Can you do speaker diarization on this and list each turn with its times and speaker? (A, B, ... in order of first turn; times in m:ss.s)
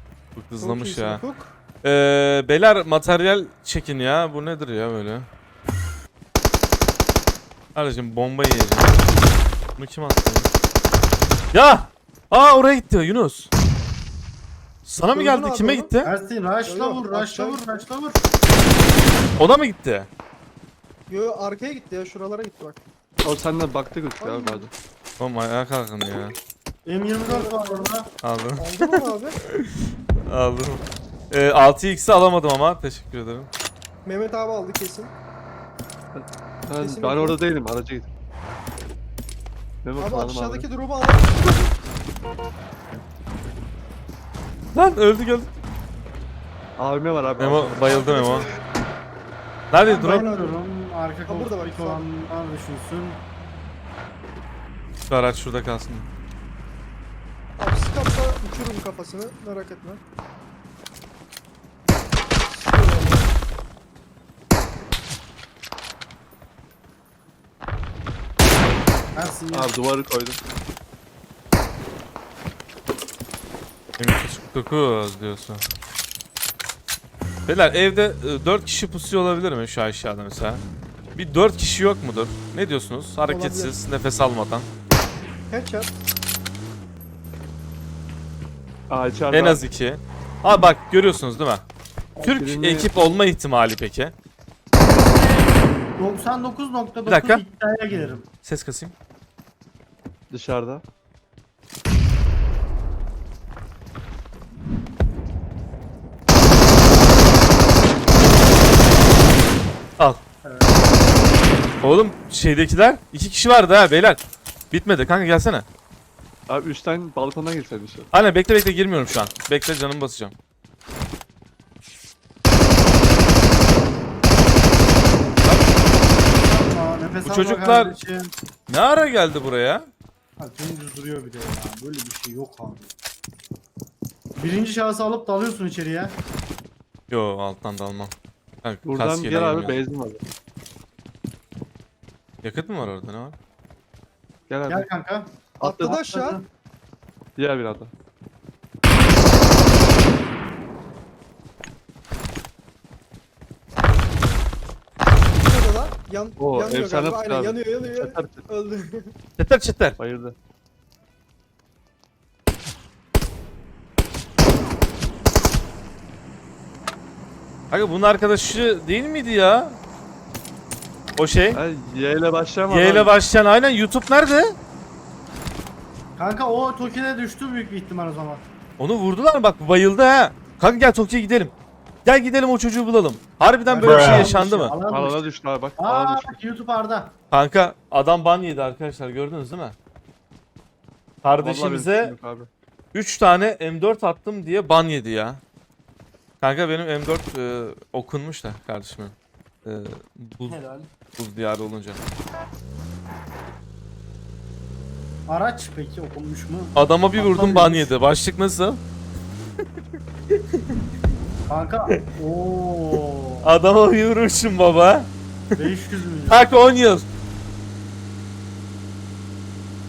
0:00.4-0:01.2 A
0:00.6-0:01.6 B
0:01.8-0:05.3 A
0:07.8-0:09.2 A
0:09.8-0:10.5 A
0:11.5-0:13.5 A
0:14.8-0:16.1 A
0:15.1-0:15.9 B
0:16.0-0:18.2 C
0:16.7-0:17.9 B
0:19.4-0:20.1 A
0:21.1-0:22.8 B
0:23.2-0:24.7 D
0:24.2-0:24.7 B
0:25.2-0:26.4 A
0:26.8-0:28.1 C
0:27.3-0:28.0 B
0:28.2-0:29.0 A
0:28.6-0:29.4 B
0:30.2-0:33.5 A
0:34.0-0:35.1 B
0:36.1-0:38.1 D
0:36.8-0:37.4 B
0:39.8-0:40.7 D
0:40.0-0:41.7 B
0:44.7-0:45.5 A
0:46.8-0:48.1 D
0:47.4-0:48.5 A
0:47.9-0:48.6 B
0:49.7-0:50.3 A
0:49.8-0:53.2 C
0:49.9-0:50.6 B
0:51.3-0:52.1 B
0:55.1-0:56.1 A
0:57.6-1:00.0 B
1:02.5-1:03.3 B
1:09.2-1:09.7 C
1:09.5-1:10.4 D
1:14.0-1:15.6 A
1:17.5-1:20.6 A
1:21.2-1:24.7 A
1:23.3-1:23.7 B
1:25.5-1:25.9 B
1:28.9-1:29.7 D
1:29.3-1:31.7 A
1:32.2-1:33.1 D
1:32.2-1:34.1 A
1:34.9-1:38.3 C
1:37.1-1:37.4 A
1:38.4-1:38.9 A
1:40.3-1:40.8 D
1:50.4-1:51.0 C
1:51.8-1:55.7 A
1:56.5-1:58.1 D
1:58.1-2:00.3 A
2:05.4-2:05.7 A
2:06.3-2:08.3 C
2:07.2-2:07.9 A
2:08.7-2:09.9 A
2:10.4-2:12.9 C
2:14.4-2:16.2 C
2:17.1-2:19.8 A
2:18.8-2:20.2 D
2:22.4-2:23.4 A
2:24.5-2:24.9 D
2:24.7-2:25.5 C
2:25.6-2:26.2 D
2:25.6-2:26.4 B
2:26.1-2:26.5 C
2:27.4-2:27.9 D
2:35.3-2:39.1 B
2:36.4-2:38.4 D
2:39.4-2:40.0 A
2:40.0-2:40.4 D
2:47.7-2:49.8 A
2:51.2-2:51.6 A
2:51.5-2:53.1 D
2:52.7-2:54.6 A
2:56.2-2:58.4 C
2:58.8-3:04.8 A
3:03.7-3:05.2 C
3:04.9-3:06.4 D
3:05.8-3:07.2 C
3:07.3-3:09.8 A
3:11.2-3:12.2 A
3:11.4-3:12.5 D
3:12.9-3:15.4 A
3:16.4-3:20.6 A
3:20.5-3:20.9 C
3:21.1-3:22.0 A
3:25.3-3:27.9 C
3:26.8-3:28.8 A
3:31.5-3:33.5 C
3:33.4-3:35.7 A
3:35.6-3:36.5 C
3:36.3-3:37.1 A